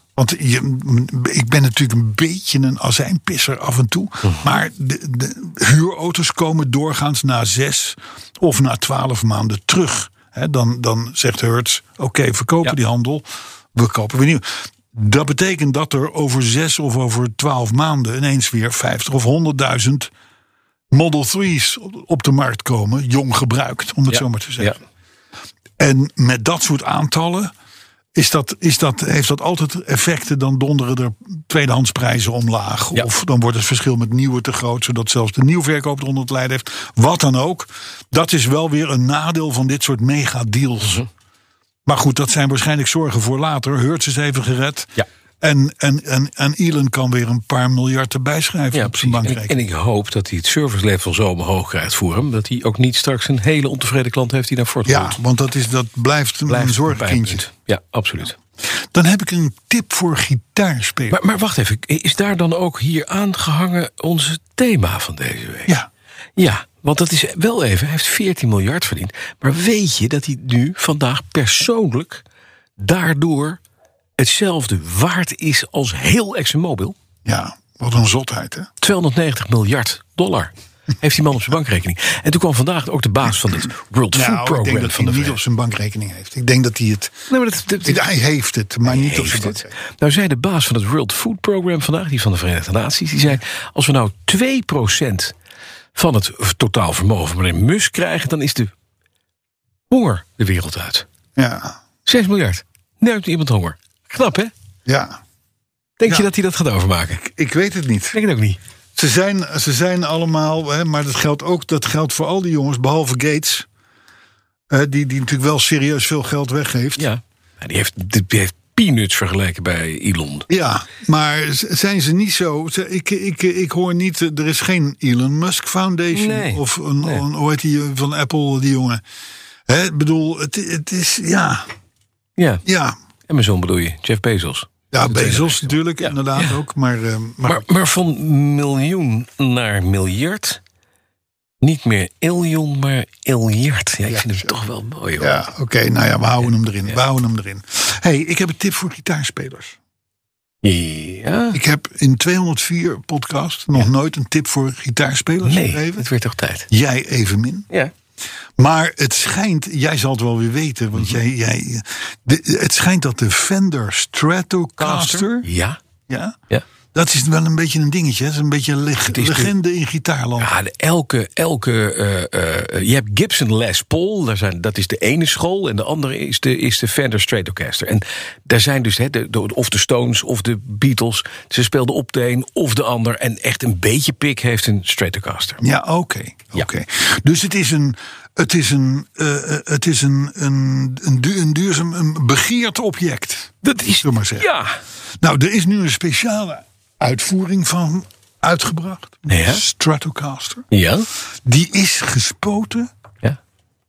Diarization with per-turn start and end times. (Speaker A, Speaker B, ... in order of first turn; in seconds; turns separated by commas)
Speaker A: 0.1-20.1, Speaker B: 4.2-4.6, Speaker A: 20.9-24.8, Speaker B: 24.1-24.8, Speaker A: 25.8-27.5, Speaker A: 28.1-41.0, Speaker A: 41.9-49.6, Speaker B: 48.7-55.2, Speaker A: 54.8-57.4, Speaker B: 56.5-58.4, Speaker A: 58.6-61.2, Speaker B: 61.1-65.7, Speaker B: 66.4-72.2, Speaker B: 72.8-73.6, Speaker B: 74.2-77.0, Speaker A: 77.2-78.7, Speaker B: 78.8-85.4, Speaker A: 84.1-87.3, Speaker B: 87.3-88.0, Speaker A: 87.8-89.7, Speaker B: 88.8-95.3, Speaker B: 96.0-98.7, Speaker B: 99.9-101.0, Speaker A: 101.4-101.8, Speaker B: 102.0-104.5, Speaker A: 104.9-105.2, Speaker B: 106.0-107.2, Speaker A: 107.2-108.2, Speaker B: 108.1-108.6, Speaker A: 109.0-113.7, Speaker A: 114.7-117.1, Speaker B: 117.0-120.5, Speaker A: 120.5-129.0, Speaker B: 126.1-127.2, Speaker A: 129.7-131.7, Speaker B: 132.4-132.6, Speaker A: 132.6-133.0, Speaker B: 133.3-136.6, Speaker A: 134.9-137.7, Speaker B: 137.4-140.6, Speaker B: 141.6-145.4, Speaker A: 144.1-144.6, Speaker A: 145.2-149.8, Speaker B: 150.6-151.6, Speaker A: 151.5-156.1, Speaker B: 155.4-156.7, Speaker A: 156.7-157.7, Speaker A: 158.6-165.5, Speaker B: 164.8-165.8, Speaker A: 166.1-166.4, Speaker A: 166.9-170.5, Speaker B: 169.1-169.5, Speaker B: 170.4-185.6, Speaker A: 185.6-194.5, Speaker B: 193.6-194.8, Speaker A: 195.2-200.6, Speaker B: 199.3-199.6, Speaker B: 200.7-201.1, Speaker A: 201.4-202.9